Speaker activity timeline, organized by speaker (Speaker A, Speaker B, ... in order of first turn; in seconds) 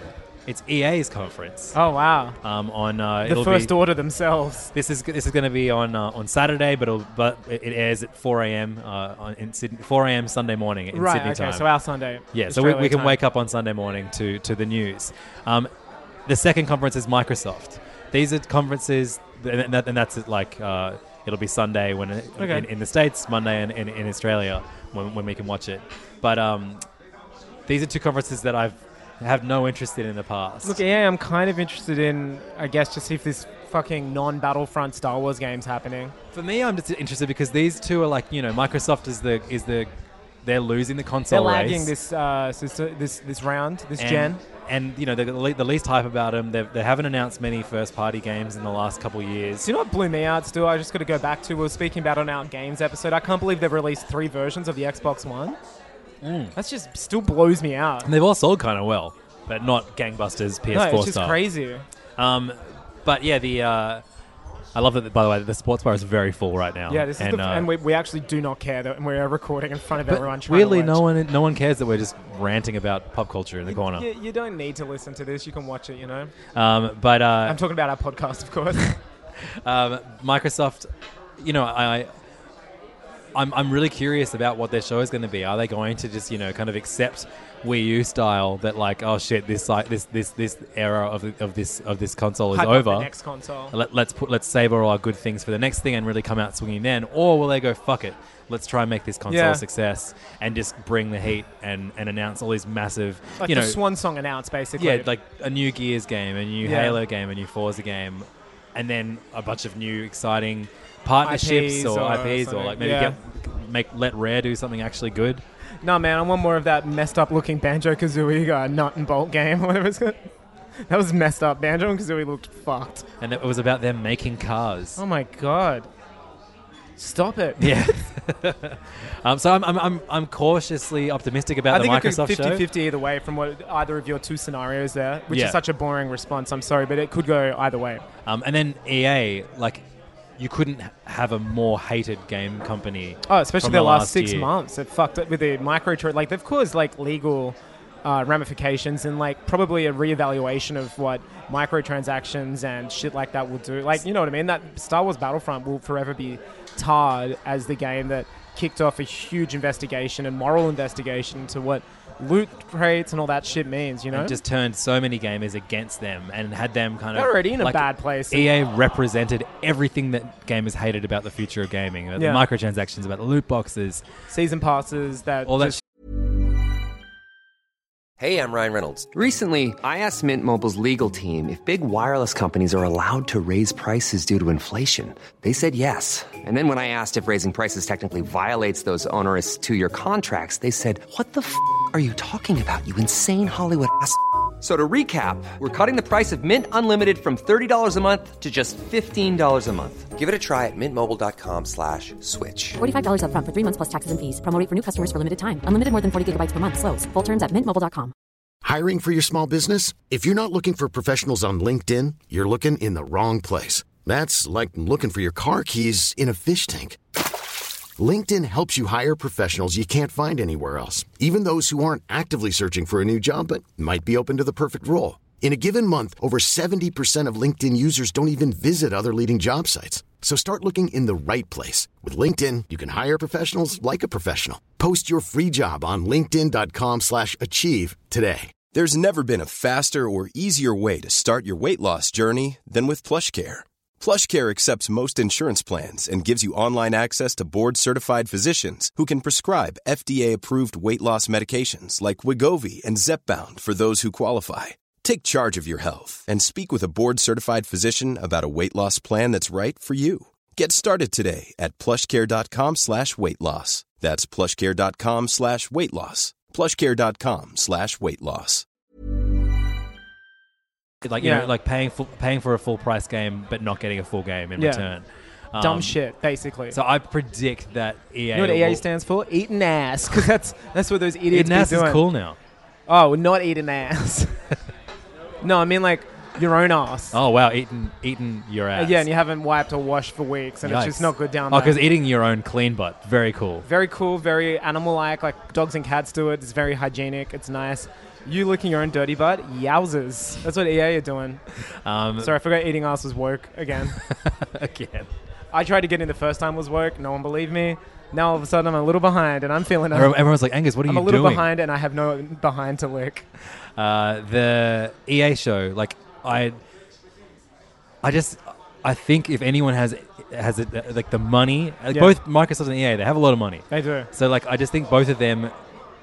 Speaker A: 0.5-1.8, 2.4-3.8, 4.7-11.7, 12.3-15.7, 16.3-26.8, 27.7-30.8, 36.3-39.9, 40.5-41.9, 44.0-49.7, 56.2-56.5, 58.0-61.4, 62.2-64.0, 64.8-67.7, 70.1-74.1, 76.5-77.6, 79.6-82.1, 83.3-93.1, 93.7-103.8, 104.8-115.4, 123.2-125.0, 127.6-132.6, 135.3-135.6, 138.3-139.8, 140.4-144.5, 164.1-174.0, 175.5-175.8, 271.0-276.0, 276.7-278.8, 281.3-282.4, 287.1-289.1, 290.6-293.7, 301.9-302.4, 304.0-305.1, 309.9-311.5, 313.8-316.6, 318.0-325.5
Speaker B: 1.7-2.4, 3.2-4.7, 10.9-13.2, 22.4-22.7, 30.6-36.1, 41.3-44.4, 49.6-55.6, 56.5-58.1, 60.7-61.9, 66.9-71.0, 73.7-76.3, 77.5-79.0, 92.5-93.7, 99.3-99.6, 103.4-105.1, 106.6-107.0, 111.2-113.2, 115.8-120.3, 120.9-123.0, 125.0-125.9, 127.0-127.9, 131.7-138.0, 143.3-164.4, 167.2-168.5, 172.2-172.4, 174.3-175.8, 271.2-271.5, 274.6-274.9, 275.6-276.8, 278.3-282.0, 282.9-284.4, 285.4-287.2, 288.8-291.8, 293.6-301.4, 302.2-304.0, 305.5-310.1, 310.9-313.3, 323.7-324.1
Speaker C: 178.2-202.8
Speaker D: 202.8-208.1
Speaker E: 208.6-217.0, 218.0-238.6
Speaker F: 238.7-268.6